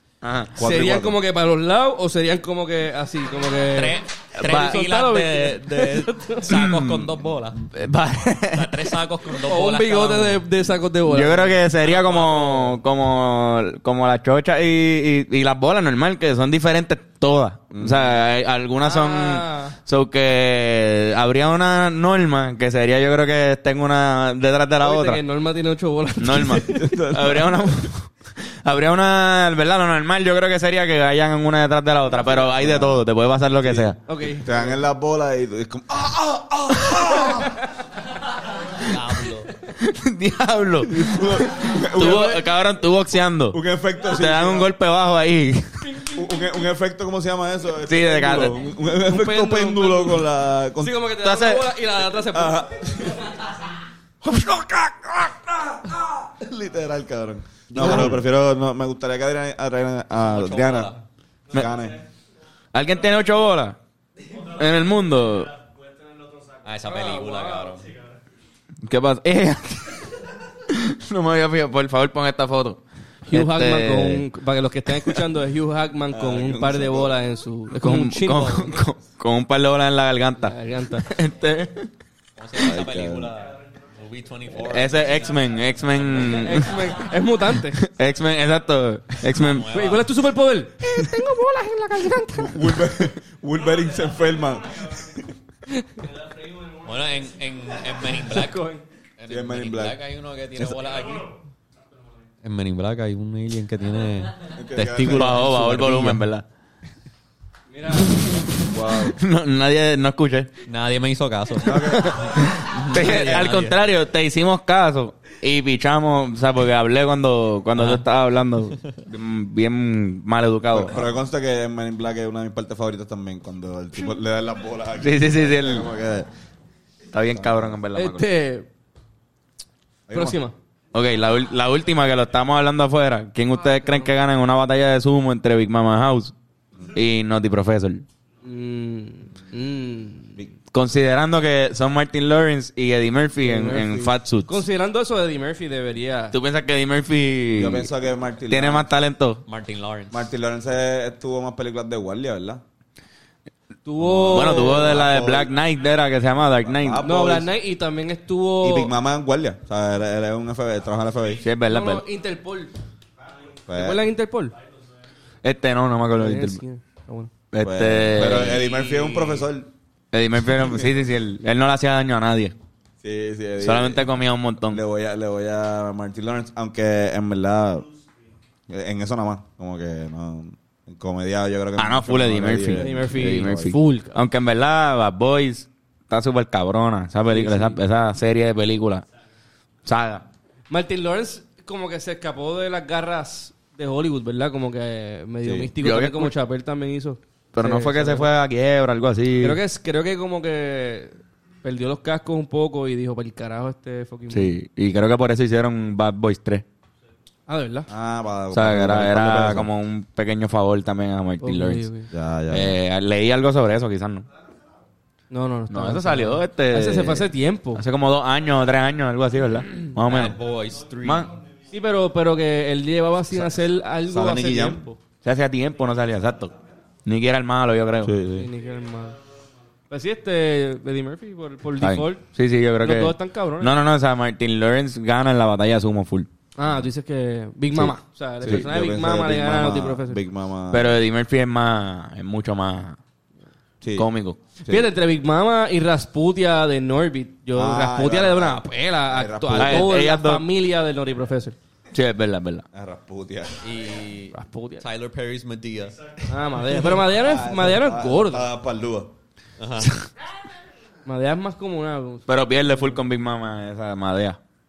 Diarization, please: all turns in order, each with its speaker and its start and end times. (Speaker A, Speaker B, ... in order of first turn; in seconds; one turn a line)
Speaker A: 0.2-0.5
Speaker B: 0.6-1.2
Speaker C: 0.6-6.5
Speaker D: 3.7-7.7
Speaker A: 4.4-4.8
Speaker A: 6.5-9.0
Speaker D: 8.5-10.5
Speaker C: 9.3-12.7
Speaker A: 11.1-25.2
Speaker B: 17.7-18.2
Speaker C: 18.8-19.8
Speaker C: 24.8-26.9
Speaker A: 26.2-34.0
Speaker B: 26.5-27.5
Speaker B: 32.1-33.0
Speaker B: 33.6-37.6
Speaker C: 34.1-34.8
Speaker D: 38.8-39.5
Speaker A: 39.7-45.9
Speaker B: 40.9-42.4
Speaker C: 42.0-42.4
Speaker B: 43.5-44.7
Speaker C: 45.8-46.5
Speaker B: 46.1-51.0
Speaker A: 47.8-48.7
Speaker C: 49.0-52.6
Speaker A: 51.2-51.7
Speaker B: 52.3-53.2
Speaker B: 54.2-61.0
Speaker A: 57.8-58.2
Speaker D: 60.2-61.0
Speaker B: 61.5-62.0
Speaker A: 62.7-63.8
Speaker A: 64.4-65.5
Speaker D: 66.6-67.9
Speaker C: 66.9-67.7
Speaker A: 68.8-72.8
Speaker C: 73.3-78.7
Speaker A: 73.3-74.2
Speaker A: 74.9-75.2
Speaker B: 76.1-77.2
Speaker A: 77.7-81.9
Speaker C: 80.4-81.1
Speaker D: 82.4-86.6
Speaker B: 82.6-83.3
Speaker A: 84.6-86.8
Speaker C: 86.2-87.8
Speaker A: 87.5-89.7
Speaker D: 89.2-90.2
Speaker C: 89.7-93.0
Speaker B: 92.4-95.3
Speaker C: 95.7-96.0
Speaker D: 96.8-98.6
Speaker C: 98.1-98.8
Speaker D: 99.2-101.3
Speaker B: 99.3-100.0
Speaker D: 102.4-106.2
Speaker B: 104.5-105.3
Speaker A: 105.0-106.5
Speaker C: 107.7-108.2
Speaker A: 107.9-110.5
Speaker B: 108.7-109.2
Speaker D: 110.7-113.8
Speaker B: 111.6-112.2
Speaker A: 111.7-121.1
Speaker D: 117.8-118.0
Speaker D: 118.8-119.0
Speaker B: 120.7-126.3
Speaker A: 125.0-125.9
Speaker A: 127.1-128.3
Speaker B: 127.3-127.7
Speaker C: 128.0-128.7
Speaker B: 130.1-130.4
Speaker C: 130.1-130.5
Speaker A: 130.9-136.3
Speaker A: 136.9-138.1
Speaker C: 138.4-140.4
Speaker A: 140.7-144.7
Speaker C: 143.4-146.4
Speaker A: 146.3-147.9
Speaker B: 147.6-148.9
Speaker A: 148.5-149.4
Speaker D: 149.5-150.2
Speaker B: 150.1-152.6
Speaker C: 153.8-155.0
Speaker B: 154.0-155.5
Speaker A: 154.3-157.1
Speaker B: 156.7-157.5
Speaker C: 157.0-158.9
Speaker B: 158.6-161.4
Speaker A: 161.4-162.0
Speaker C: 161.7-162.8
Speaker B: 163.7-164.0
Speaker C: 163.7-164.6
Speaker A: 165.4-166.6
Speaker C: 166.2-167.3
Speaker A: 167.5-168.7
Speaker B: 167.6-169.7
Speaker D: 168.2-169.5
Speaker A: 170.1-172.6
Speaker B: 173.0-174.1
Speaker A: 173.6-174.8
Speaker B: 174.7-177.9
Speaker B: 178.7-183.8
Speaker A: 181.8-189.1
Speaker C: 182.7-184.2
Speaker C: 187.3-187.8
Speaker A: 189.8-190.3
Speaker C: 190.7-198.3
Speaker B: 195.4-195.7
Speaker A: 195.8-196.3
Speaker A: 197.5-199.6
Speaker C: 199.4-204.5
Speaker A: 204.3-206.6
Speaker C: 207.5-207.9
Speaker B: 207.9-209.7
Speaker A: 208.5-211.9
Speaker C: 211.4-212.1
Speaker B: 212.1-212.7
Speaker A: 212.5-214.3
Speaker C: 215.3-217.8
Speaker A: 215.7-220.4
Speaker D: 220.0-221.3
Speaker A: 221.0-221.4
Speaker C: 221.7-225.0
Speaker B: 224.1-224.9
Speaker A: 225.2-228.2
Speaker B: 228.0-228.5
Speaker C: 228.3-229.2
Speaker C: 229.9-232.3
Speaker A: 231.8-236.3
Speaker C: 232.8-233.8
Speaker C: 236.6-240.2
Speaker A: 237.7-238.7
Speaker B: 238.4-241.0
Speaker A: 240.7-243.0
Speaker B: 243.8-244.1
Speaker A: 244.0-244.4
Speaker B: 244.6-244.9
Speaker C: 244.7-251.6
Speaker B: 247.6-250.1
Speaker A: 249.6-250.4
Speaker A: 251.9-252.7
Speaker B: 252.7-253.7
Speaker D: 253.6-256.1
Speaker C: 254.3-254.8
Speaker C: 256.3-258.5
Speaker B: 257.1-259.1
Speaker D: 259.6-259.9
Speaker C: 261.1-262.3
Speaker A: 262.3-264.4